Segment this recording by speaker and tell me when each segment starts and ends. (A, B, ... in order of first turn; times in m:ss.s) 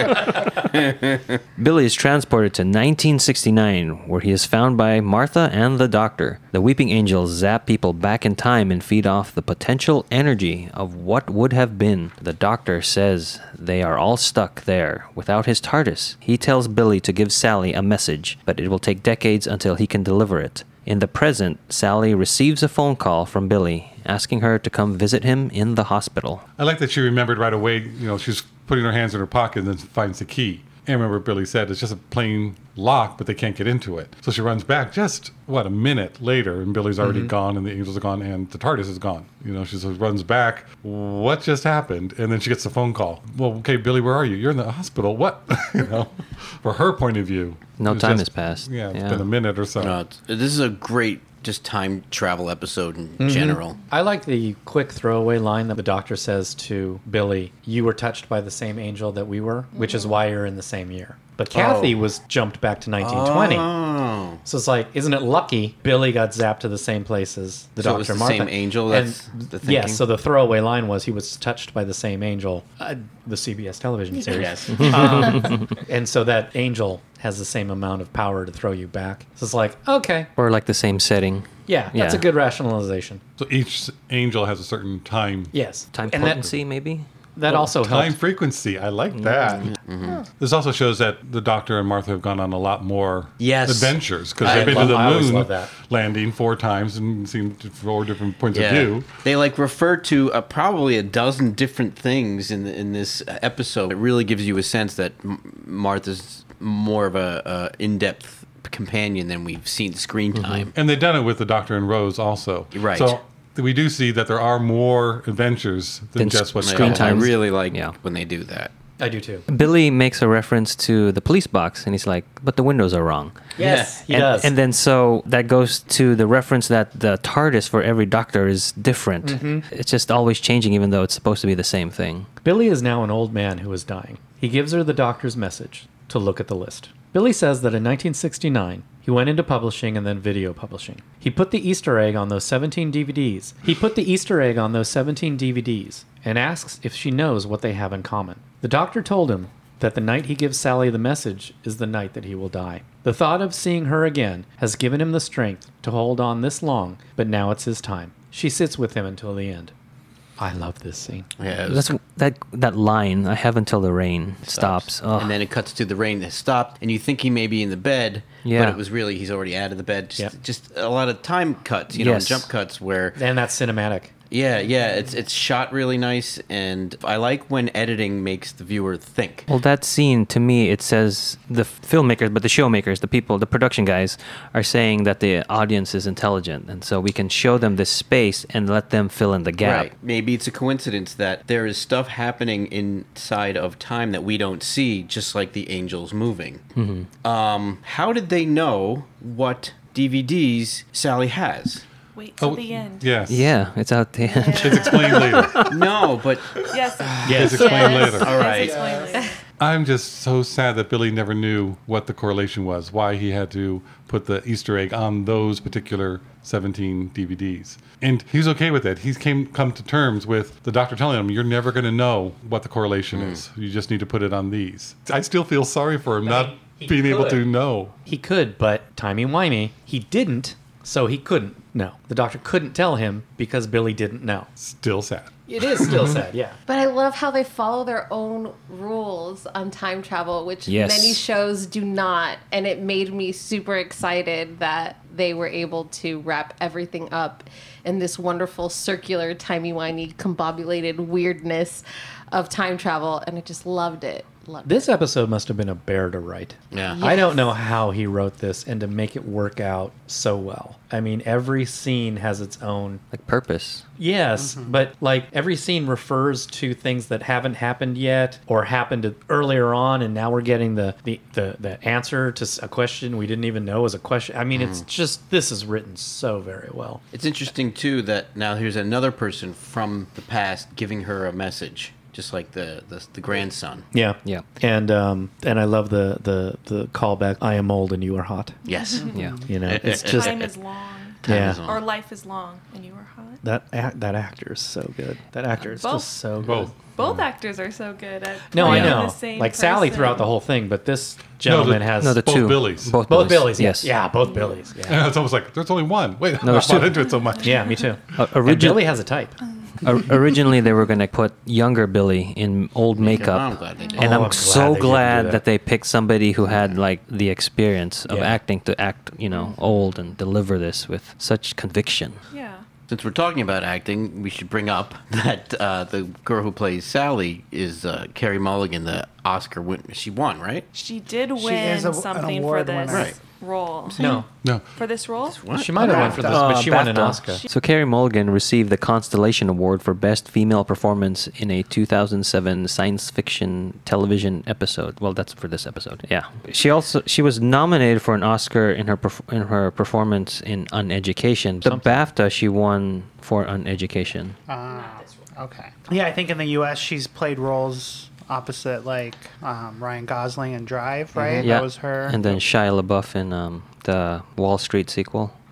0:00.7-0:01.4 A
0:01.6-0:26.4 B
0:26.6-0:50.0 C
0:37.0-0:37.3 D
0:47.8-0:49.3 B
0:49.8-0:53.8 A
0:53.2-1:03.7 D
0:59.8-1:00.2 E
1:01.5-1:02.0 A
1:03.0-1:04.4 A
1:04.4-1:20.3 D
1:07.8-1:10.0 A
1:14.3-1:15.2 A
1:14.7-1:15.7 B
1:20.4-1:22.3 B
1:21.7-1:23.2 D
1:23.4-1:25.5 C
1:25.5-1:26.5 D
1:25.9-1:27.7 B
1:27.4-1:28.2 D
1:27.6-1:29.8 C
1:29.1-1:29.7 B
1:29.8-1:30.2 A
1:30.3-1:39.2 C
1:33.4-1:34.9 A
1:34.4-1:35.7 D
1:38.5-1:50.8 A
1:50.4-1:50.7 B
1:50.8-1:57.3 C
1:52.7-1:53.2 A
1:56.2-1:58.0 B
1:56.6-1:58.7 A
1:59.0-1:59.4 D
1:59.5-2:03.5 B
2:03.6-2:04.5 D
2:03.6-2:04.0 A
2:04.1-2:12.3 B
2:09.2-2:09.7 D
2:12.4-2:39.7 D
2:40.4-2:41.3 D
2:41.4-2:41.9 A
2:41.7-2:45.4 B
2:44.5-2:53.2 A
2:48.4-2:48.8 B
2:51.9-2:52.5 B
2:53.2-2:54.1 D
2:54.3-2:59.5 A
2:59.5-3:09.9 B
3:09.6-3:16.6 A
3:16.8-3:17.1 B
3:17.2-3:21.8 A
3:22.2-3:23.1 F
3:22.4-3:23.5 C
3:23.3-3:25.4 B
3:24.3-3:25.0 E
3:24.5-3:25.7 F
3:24.6-3:25.8 C
3:25.7-3:29.1 A
3:26.6-3:29.4 F
3:27.3-3:27.8 D
3:27.3-3:28.6 C
3:27.8-3:28.1 E
3:29.6-3:47.9 C
3:43.1-3:43.4 A
3:46.2-3:47.4 D
3:48.1-3:54.5 D
3:54.6-3:56.2 C
3:55.5-3:56.6 D
3:56.7-4:14.9 E
4:00.7-4:01.2 B
4:14.6-4:23.0 D
4:16.7-4:17.0 A
4:16.9-4:17.5 E
4:23.1-4:23.8 B
4:24.0-4:37.0 D
4:24.4-4:24.8 G
4:34.6-4:34.8 A
4:37.1-4:43.9 A
4:43.9-4:48.6 D
4:48.6-4:50.5 A
4:48.8-4:49.1 F
4:49.1-4:49.4 G
4:49.5-4:50.5 D
4:49.8-4:53.4 F
4:51.2-4:51.8 A
4:51.2-4:51.6 D
4:53.4-4:56.7 D
4:55.7-4:56.1 F
4:56.4-4:57.2 C
4:56.9-5:00.3 F
4:58.5-5:02.2 D
4:58.6-4:59.1 B
5:01.4-5:03.0 C
5:02.0-5:03.9 B
5:03.1-5:05.1 D
5:04.9-5:07.7 C
5:06.4-5:07.0 B
5:07.4-5:09.4 D
5:08.2-5:09.0 B
5:09.8-5:22.2 B
5:13.0-5:14.2 A
5:13.8-5:14.2 F
5:14.0-5:15.4 D
5:16.5-5:16.8 A
5:18.1-5:18.4 D
5:22.3-5:22.6 F
5:22.9-5:30.7 A
5:30.7-5:34.2 F
5:31.4-5:33.2 G
5:32.9-5:33.2 A
5:33.9-5:34.2 G
5:34.0-5:34.3 D
5:34.8-5:35.4 F
5:35.2-5:36.4 A
5:35.5-5:37.4 D
5:35.8-5:36.5 G
5:36.1-5:54.4 B
5:51.6-5:52.0 D
5:54.5-6:02.4 G
6:01.2-6:01.4 D
6:01.4-6:05.4 B